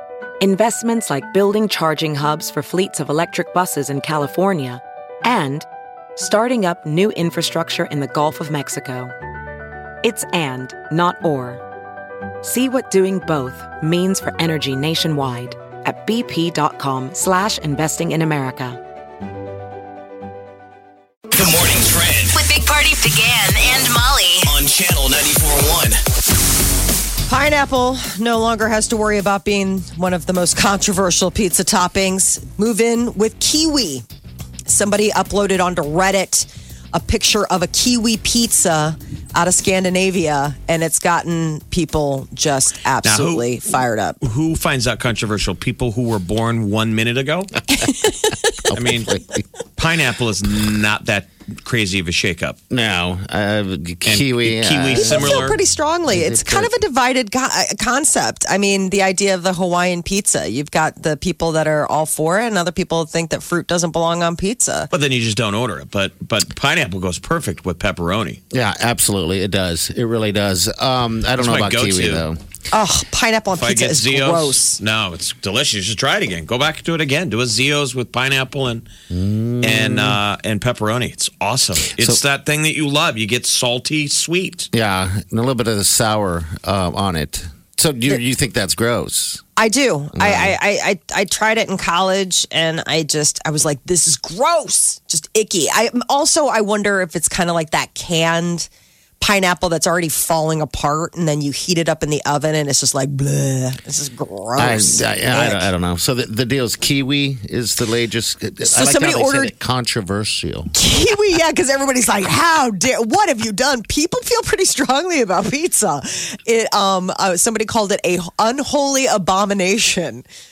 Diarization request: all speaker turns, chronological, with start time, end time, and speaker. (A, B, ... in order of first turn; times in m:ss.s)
0:00.4-0:09.1 A
0:10.0-0:11.6 A
0:12.4-0:18.8 A
0:21.3-0:22.4 B
0:22.3-0:24.5 C
0:24.5-0:26.0 B
0:27.3-0:34.0 D
0:34.7-0:44.2 D
0:43.0-0:47.7 E
0:48.0-0:48.3 D
0:48.6-0:49.4 F
0:48.7-0:49.1 E
0:49.8-0:52.6 E
0:52.7-0:55.4 F
0:54.0-0:55.6 E
0:55.0-1:04.9 D
0:56.1-0:56.7 F
1:04.9-1:08.4 E
1:08.5-1:12.4 F
1:11.4-1:12.3 E
1:12.7-1:14.8 D
1:13.6-1:18.8 E
1:19.1-1:20.2 F
1:19.6-1:24.7 E
1:22.0-1:22.2 F
1:24.7-1:29.4 F
1:29.6-1:45.7 D
1:30.1-1:30.6 F
1:44.6-1:50.7 F
1:48.6-1:49.5 D
1:50.7-2:00.3 D